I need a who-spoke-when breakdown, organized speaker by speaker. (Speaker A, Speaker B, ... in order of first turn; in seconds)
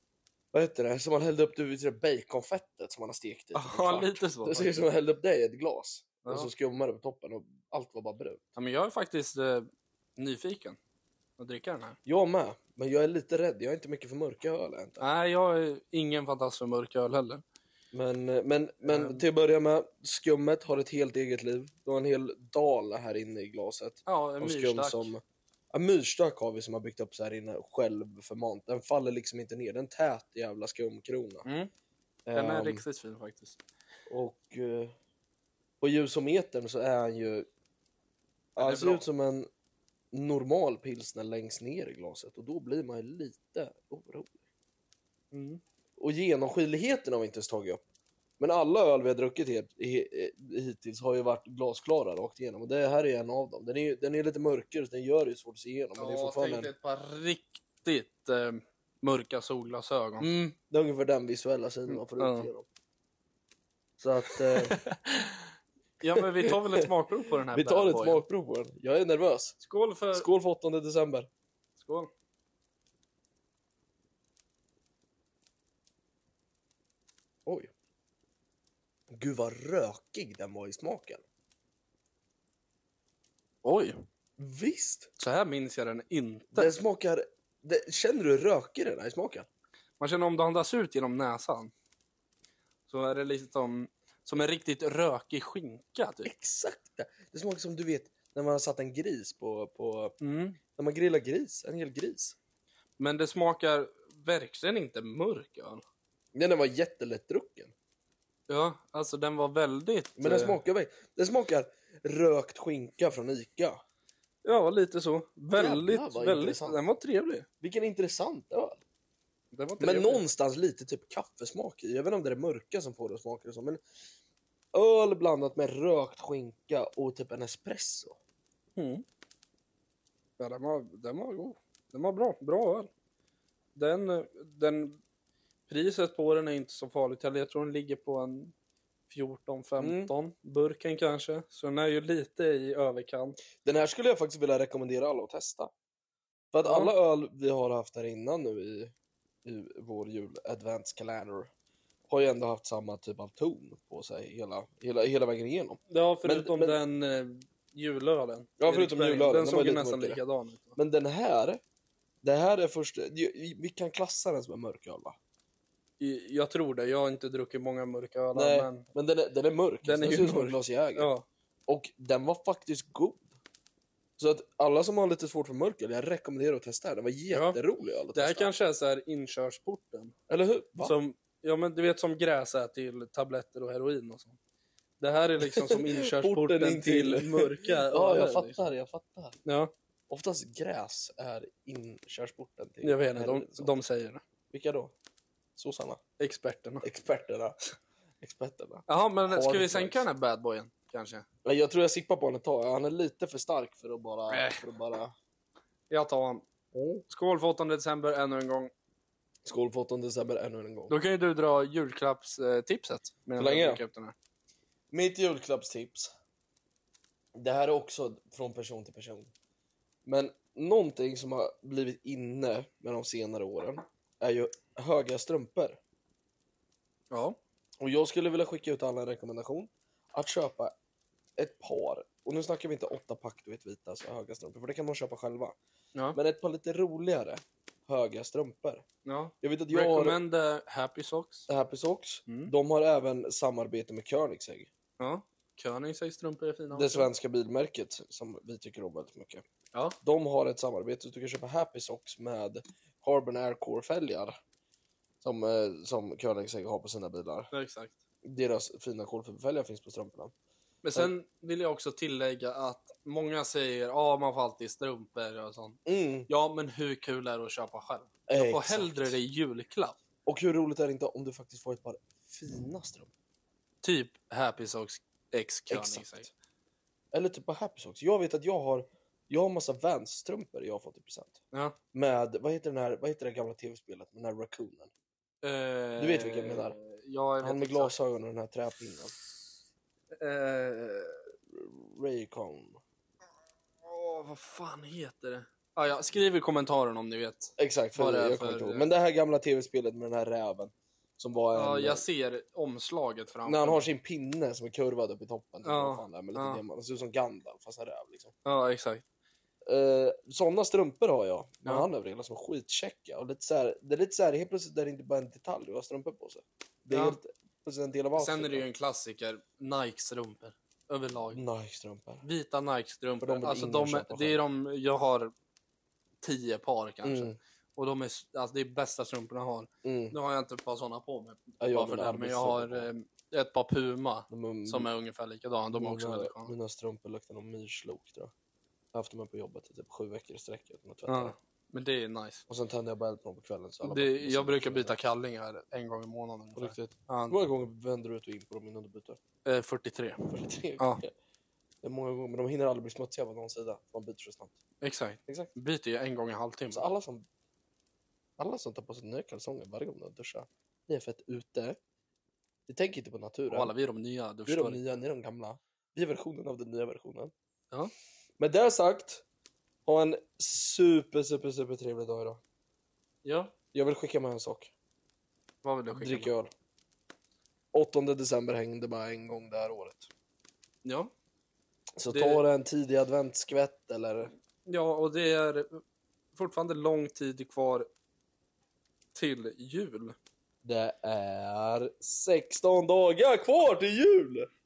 Speaker A: 0.5-8.4, 12.1-15.0, 17.9-31.4, 32.3-32.8, 34.1-34.9, 35.8-37.5, 38.6-39.5, 40.1-44.4, 46.0-47.8, 48.4-56.7, 60.2-62.6, 64.0-64.8, 67.5-69.6, 70.1-71.3, 77.5-77.7, 79.1-81.2, 84.4-85.1, 86.5-89.5, 96.2-100.1, 100.8-102.3, 106.3-107.7, 110.2-113.8, 115.5-116.8, 117.6-118.8, 119.8-123.8, 124.7-128.2, 139.8-140.1, 143.6-145.7, 146.5-148.9, 149.4-151.5, 152.1-156.8, 158.6-160.2, 160.8-161.6, 162.2-165.2, 168.3-171.1, 171.7-173.3, 174.2-178.5, 180.3-180.9, 185.5-189.4, 190.1-193.7, 194.5-194.9, 195.6-196.0, 196.8-197.6, 198.2-200.1, 201.4-205.1, 206.7-207.0, 209.4-210.9, 213.4-213.8, 214.9-216.1, 217.3-219.3, 220.1-225.8, 227.8-230.7, 231.4-235.6, 236.1-238.8, 239.4-240.2, 241.5-244.7, 246.7-249.4, 250.0-254.4, 255.2-257.5, 258.2-260.3, 265.9-266.3, 268.3-269.2, 270.2-273.1, 275.7-276.3, 277.1-281.4, 281.9-284.9, 286.0-286.8, 287.4-289.1, 291.5-292.8, 297.6-302.0, 303.4-308.3, 309.6-318.7, 321.3-322.2, 323.2-324.4, 327.0-327.4, 329.8-330.1, 331.6-332.9, 334.3-334.9, 335.7-338.3, 338.9-341.3, 342.5-345.0, 346.6-349.2, 350.3-351.1, 351.8-354.6, 355.3-355.5, 356.7-357.3, 358.4-361.8, 362.7-363.7, 364.5-367.3, 368.4-369.2, 369.9-372.4, 373.7-374.7, 375.9-376.5, 377.7-380.1, 382.0-384.3, 390.6-394.5
Speaker B: 3.5-4.8, 6.2-6.5, 8.6-10.8, 11.4-12.0, 15.0-17.4, 18.8-19.2, 24.1-25.1, 31.4-31.7, 32.3-33.6, 38.6-39.0, 45.3-45.6, 55.9-60.3, 61.9-62.5, 64.6-65.1, 66.0-68.2, 69.6-70.3, 71.8-72.1, 83.6-84.0, 85.2-86.7, 90.0-91.7, 92.9-96.3, 100.2-100.6, 103.0-105.8, 108.5-110.6, 114.4-117.5, 119.5-120.2, 128.8-129.0, 130.4-132.9, 133.8-135.0, 135.7-138.5, 139.1-143.4, 146.6-146.9, 155.9-160.8, 166.0-168.8, 169.8-171.2, 177.3-177.6, 178.1-180.1, 180.8-184.4, 185.0-188.6, 189.4-189.7, 192.8-194.2, 196.2-196.8, 198.9-201.2, 204.3-204.6, 205.9-206.4, 207.1-208.7, 210.9-214.1, 227.1-227.4, 239.1-241.5, 242.3-242.5, 245.0-247.1, 257.5-257.9, 260.8-270.0, 273.8-276.3, 285.4-287.9, 290.1-291.2, 293.8-298.9, 301.5-303.9, 305.6-306.6, 308.4-309.0, 316.9-317.2, 318.1-321.4, 322.2-325.3, 326.2-336.6, 341.1-342.4, 343.8-347.4, 349.4-351.0, 354.8-356.9, 363.5-364.8, 373.2-373.5, 375.6-376.3, 380.8-381.1, 382.1-382.4, 384.7-385.8, 386.3-387.9, 389.1-390.1